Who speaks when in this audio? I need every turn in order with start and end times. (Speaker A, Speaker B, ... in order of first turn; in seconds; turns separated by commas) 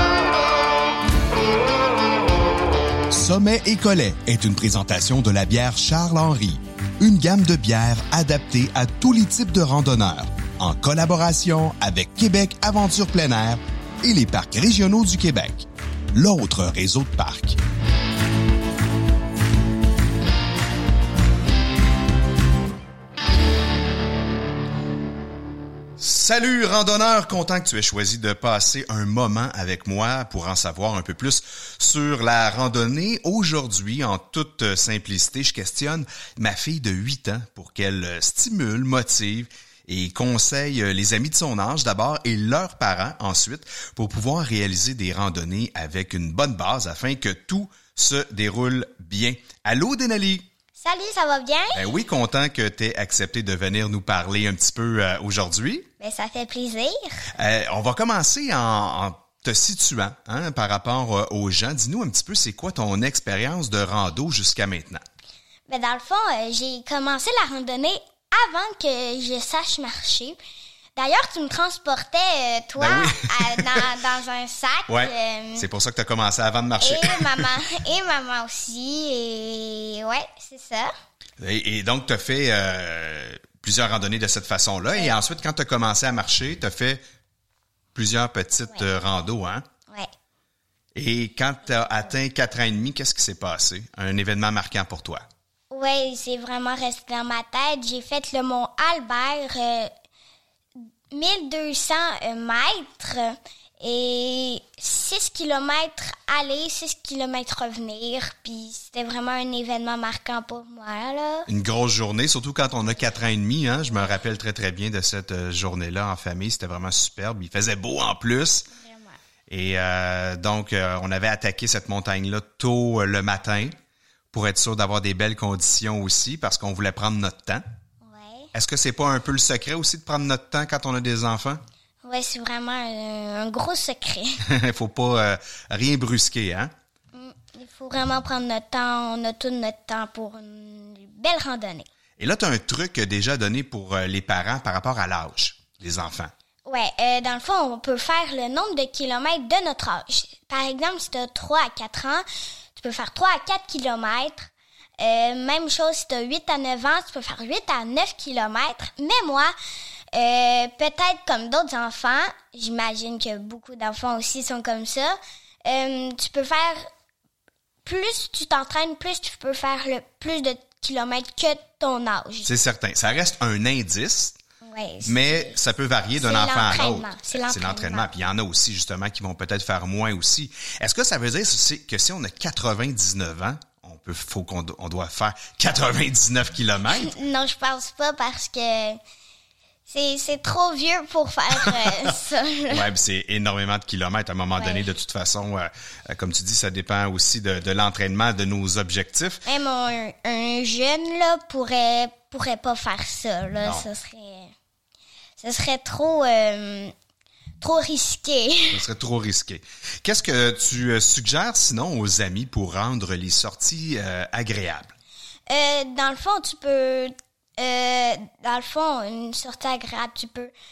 Speaker A: 3.1-17.6, Speaker A: 26.0-50.5, Speaker B: 50.8-51.8, Speaker A: 51.7-55.9, Speaker B: 56.0-57.3, Speaker A: 57.3-65.0, Speaker B: 65.7-70.4, Speaker B: 71.0-75.7, Speaker A: 72.8-73.9, Speaker A: 74.9-77.5, Speaker B: 76.8-80.9, Speaker A: 81.4-87.0, Speaker A: 88.0-89.7, Speaker A: 91.0-95.2, Speaker B: 91.7-92.1, Speaker B: 95.7-99.9, Speaker B: 101.1-111.5, Speaker A: 111.5-118.7, Speaker B: 118.7-119.2, Speaker A: 119.5-123.8, Speaker A: 124.3-127.6, Speaker B: 128.0-128.5, Speaker A: 128.5-131.6, Speaker B: 132.0-134.4, Speaker A: 134.4-136.7, Speaker B: 137.1-141.9, Speaker A: 142.2-146.3, Speaker B: 146.7-159.5, Speaker B: 160.1-166.9, Speaker B: 167.8-172.5, Speaker A: 172.4-174.4, Speaker B: 174.6-175.6, Speaker A: 175.0-187.2, Speaker B: 176.2-178.1, Speaker B: 187.0-189.0, Speaker B: 189.9-192.9, Speaker A: 191.5-192.2, Speaker A: 192.7-199.4, Speaker B: 194.6-194.9, Speaker B: 199.4-204.5, Speaker A: 203.6-203.9, Speaker B: 205.4-206.9, Speaker B: 207.6-208.8, Speaker A: 208.7-214.9, Speaker B: 215.5-220.5